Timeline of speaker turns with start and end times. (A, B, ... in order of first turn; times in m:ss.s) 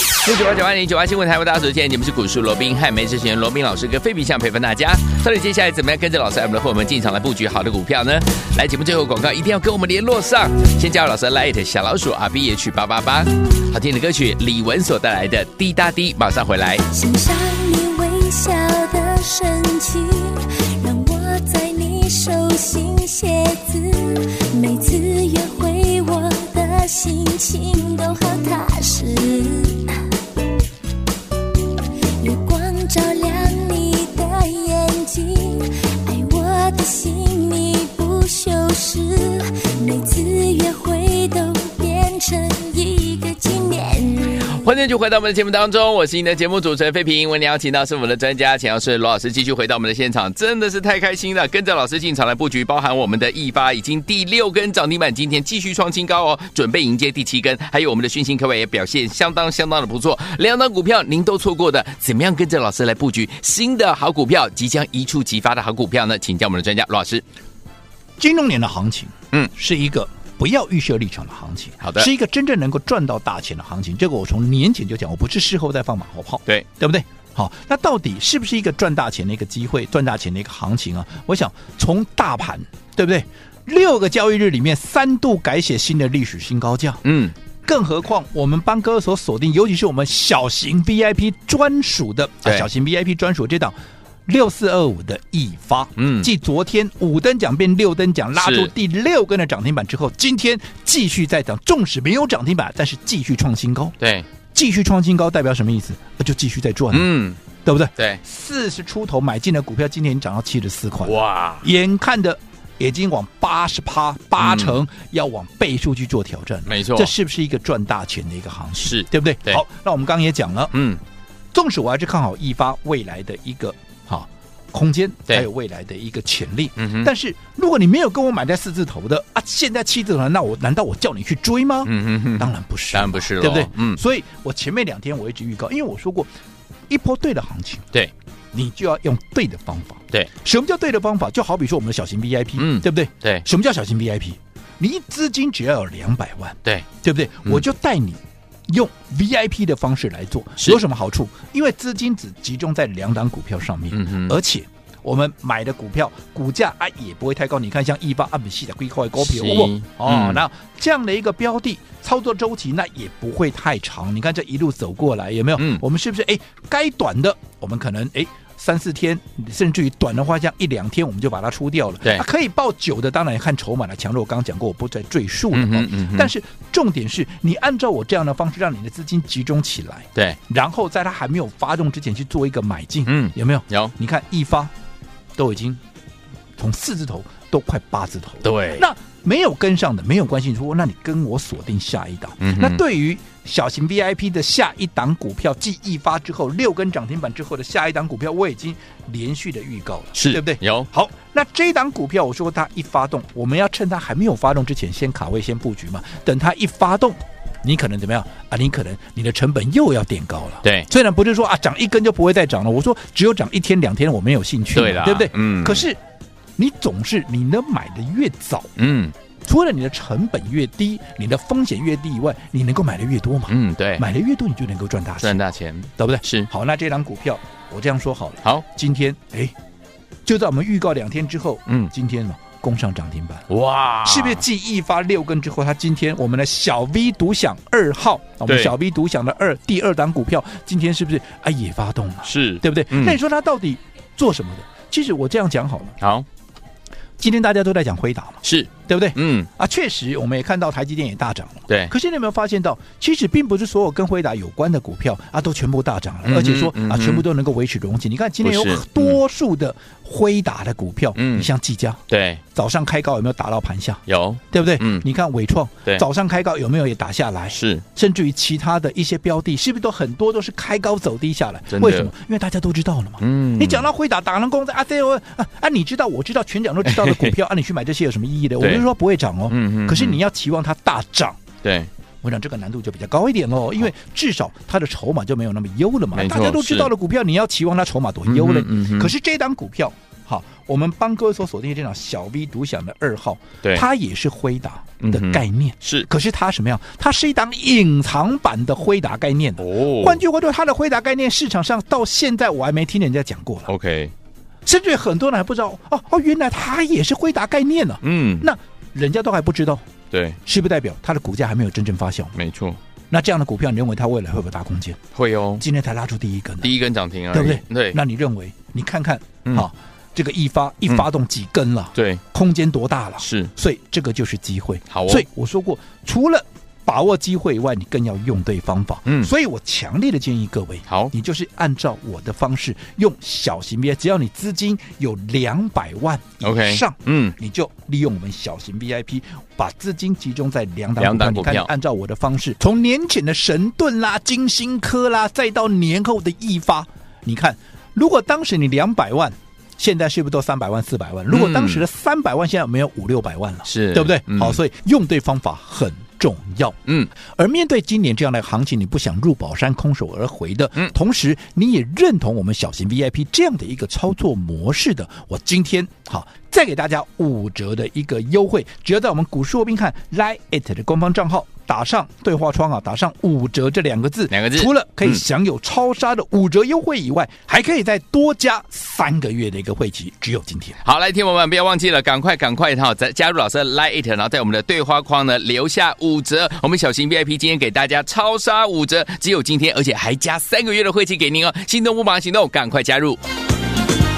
0:00.2-0:16.8 A
0:16.9-0:30.0 B
0:32.2-0:44.5 B
0:44.5-1:07.2 A
1:08.2-1:27.0 C
1:11.8-1:12.1 A
1:27.0-1:27.3 A
1:27.6-1:33.8 C
1:34.3-1:44.0 C
1:36.0-1:36.3 A
1:38.4-1:38.7 A
1:44.0-1:44.3 A
1:44.5-1:47.1 C
1:46.9-1:47.4 A
1:47.6-2:00.8 C
1:48.0-1:48.2 A
1:51.0-1:51.7 A
1:54.4-1:54.8 A
1:56.7-1:57.1 A
1:58.8-1:59.6 A
2:00.7-2:01.0 A
2:01.5-2:16.3 C
2:06.8-2:07.1 A
2:11.8-2:14.0 A
2:16.9-2:17.9 C
2:18.5-3:04.7 C
2:22.6-2:23.4 A
2:33.9-2:34.4 A
2:39.2-2:40.4 A
2:45.6-2:45.8 A
2:55.5-2:56.3 A
3:03.1-3:03.9 A
3:05.4-3:05.8 C
3:06.6-3:36.0 C
3:08.4-3:08.9 A
3:12.4-3:12.8 A
3:20.2-3:20.9 A
3:30.6-3:30.9 A
3:34.7-3:35.9 A
3:36.6-3:38.7 C
3:38.8-3:39.1 A
3:39.4-3:45.4 C
3:43.5-3:44.1 A
3:45.2-3:46.5 A
3:46.0-3:49.5 C
3:50.3-3:53.5 C
3:51.7-3:51.9 A
3:53.5-3:54.5 A
3:54.0-4:06.0 C
3:58.5-3:58.7 A
4:02.2-4:03.2 A
4:06.0-4:06.3 A
4:07.2-4:22.0 C
4:08.4-4:09.5 A
4:11.7-4:11.9 A
4:16.2-4:17.3 A
4:18.4-4:19.2 A
4:21.2-4:21.5 A
4:22.1-4:22.4 A
4:22.5-4:41.4 C
4:24.1-4:25.1 A
4:27.5-4:27.8 A
4:31.7-4:32.1 A
4:33.2-4:33.9 A
4:36.8-4:37.4 A
4:38.6-4:38.9 A
4:39.5-4:40.2 A
4:41.6-4:41.9 A
4:42.2-5:03.7 C
4:46.1-4:46.9 A
4:48.3-4:49.1 A
4:55.0-4:56.1 A
4:59.6-5:00.2 A
5:03.7-5:04.1 A
5:04.7-5:09.8 C
5:08.0-5:08.5 A
5:10.1-5:10.4 A
5:10.4-5:12.4 C
5:12.4-5:12.8 A
5:13.1-5:15.0 C
5:15.2-5:15.6 A
5:15.6-5:16.7 C
5:16.6-5:18.0 A
5:17.3-5:56.8 C
5:22.0-5:22.2 A
5:23.2-5:23.5 A
5:24.9-5:25.3 A
5:29.1-5:29.3 A
5:30.9-5:31.1 A
5:36.4-5:37.4 A
5:41.0-5:41.7 A
5:51.3-5:51.9 A
5:53.7-5:54.6 A
5:57.4-6:20.8 C
6:14.3-6:15.2 A
6:20.8-6:33.2 A